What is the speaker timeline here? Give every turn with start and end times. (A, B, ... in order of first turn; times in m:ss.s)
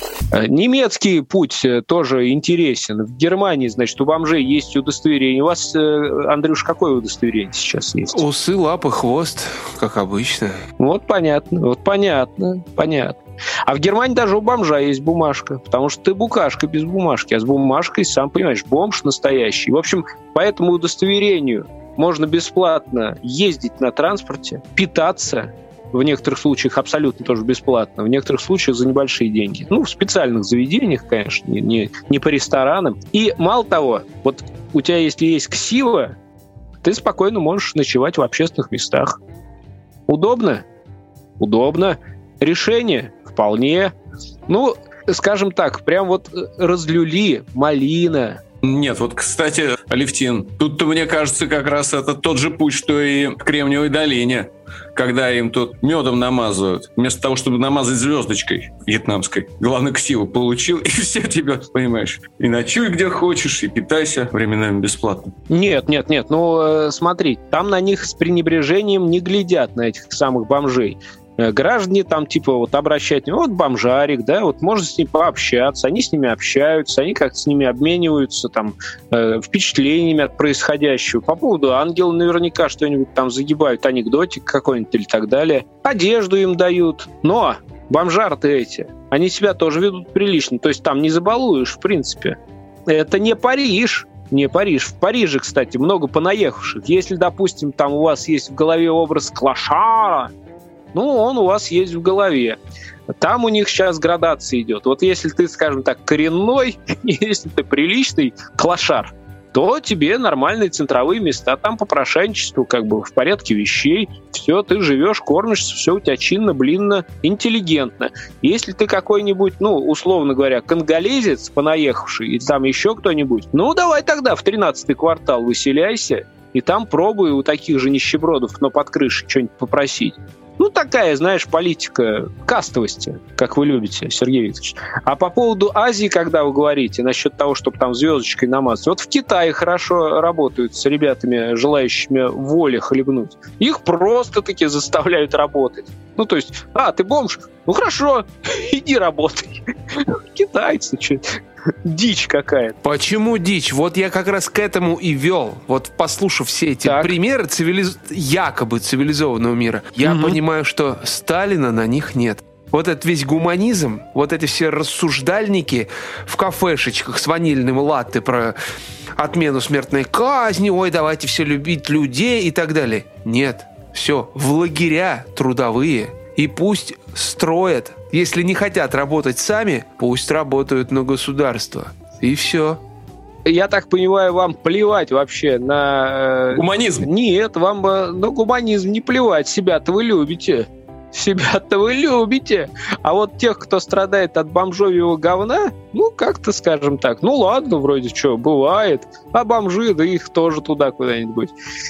0:00.3-0:08.2 A
0:08.1-0:10.6 B
0:10.8-0:36.2 A
0:36.8-0:39.2 A
0:40.1-0:40.6 A
0:41.4-0:43.9 A
0:44.5-0:48.4 A
0:48.6-1:05.3 C
1:05.5-1:40.3 A
1:40.9-1:42.6 A
1:43.2-2:32.8 A
2:32.8-2:48.6 B
2:36.8-2:37.1 A
2:40.0-2:40.4 A
2:49.2-3:02.8 B
3:03.5-3:21.5 A
3:06.5-3:07.1 C